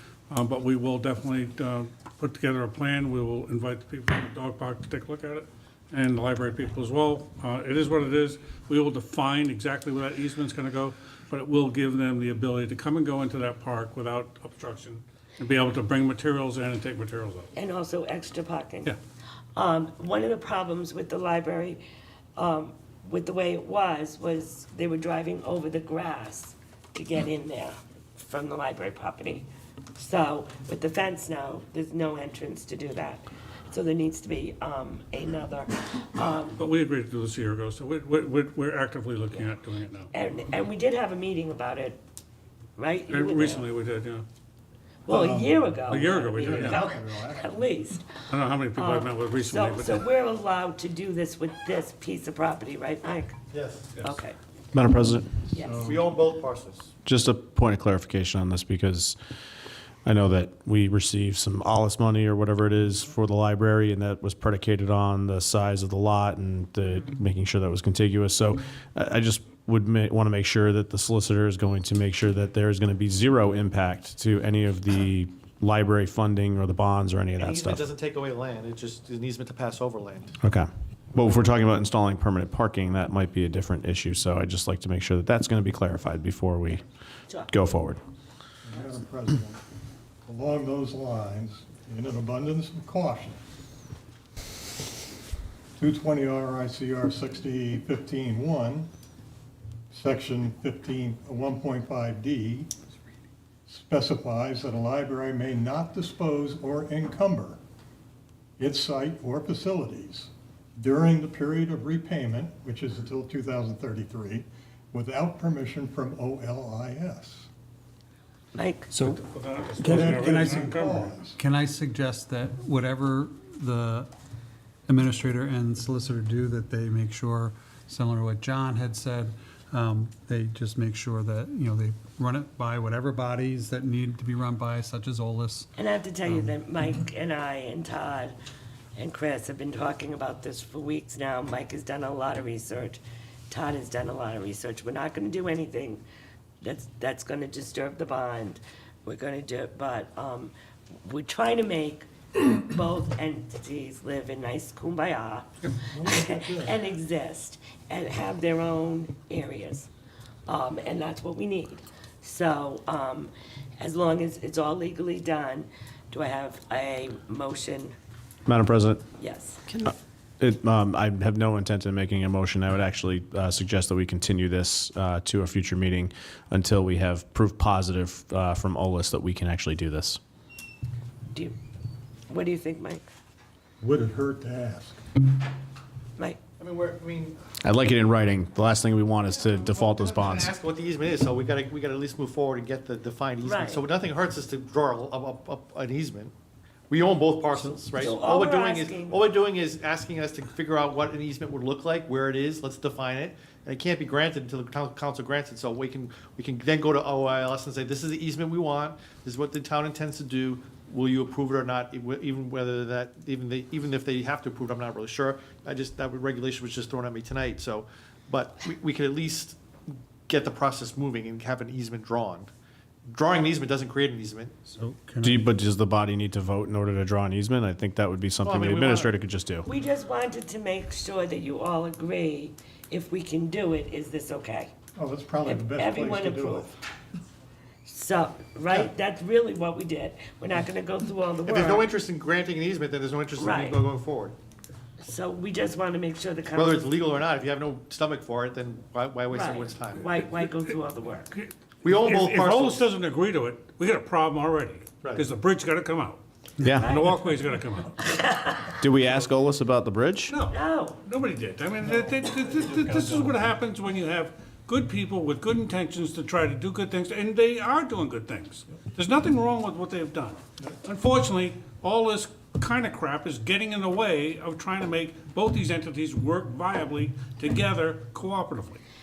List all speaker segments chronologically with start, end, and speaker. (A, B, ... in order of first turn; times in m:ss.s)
0:00.3-0:17.5 A
0:17.6-0:19.0 B
0:19.6-0:21.8 B
0:22.4-0:36.6 B
0:36.6-0:40.1 A
0:40.1-0:42.0 B
0:42.8-0:43.7 B
0:43.1-0:44.3 A
0:45.1-0:48.1 B
0:45.1-0:47.6 C
0:45.9-0:46.9 A
0:48.3-0:50.0 A
0:48.8-0:53.4 B
0:53.5-0:53.9 D
0:54.0-0:54.4 B
0:54.7-0:55.4 E
0:55.5-0:55.9 B
0:55.5-0:56.1 C
0:55.8-0:56.9 D
0:57.0-0:59.2 E
1:00.0-1:17.9 E
1:17.4-1:20.4 D
1:20.4-1:26.8 E
1:27.5-1:28.0 E
1:28.6-1:29.6 C
1:30.2-1:33.4 C
1:35.8-1:38.9 C
1:39.9-1:42.7 C
1:43.7-1:47.6 C
1:48.6-1:57.5 C
1:58.6-1:58.9 B
1:58.9-1:59.2 F
1:59.0-2:01.2 A
1:59.8-2:00.7 F
1:59.9-2:01.4 C
2:01.3-2:04.1 F
2:04.9-2:15.7 F
2:15.8-2:18.4 B
2:16.3-2:16.5 F
2:19.0-2:26.0 B
2:26.6-2:39.9 B
2:35.9-2:36.8 C
2:40.5-2:48.0 B
2:48.5-2:49.0 E
2:49.2-2:49.7 B
2:49.7-3:00.2 E
3:02.3-3:03.0 B
3:03.8-3:05.0 C
3:06.6-3:07.4 D
3:07.6-3:10.5 E
3:09.4-3:16.3 D
3:13.4-3:13.8 B
3:16.9-3:42.5 D
3:18.0-3:19.2 B
3:43.1-3:44.6 D
3:44.7-3:45.4 A
3:45.2-3:49.7 E
3:48.4-3:49.1 D
3:49.7-3:54.7 B
3:55.0-3:56.8 C
3:55.4-3:56.8 B
3:57.9-4:01.9 B
4:01.5-4:04.4 D
4:03.4-4:03.9 B
4:05.0-4:06.9 B
4:06.5-4:10.1 D
4:09.3-4:11.3 B
4:11.4-4:16.2 A
4:11.8-4:12.9 D
4:16.6-4:16.9 E
4:16.8-4:17.2 B
4:16.8-4:18.0 A
4:18.0-4:18.7 B
4:18.8-4:20.4 E
4:20.3-4:20.5 A
4:20.5-4:21.0 B
4:21.0-4:38.8 A
4:21.8-4:23.3 C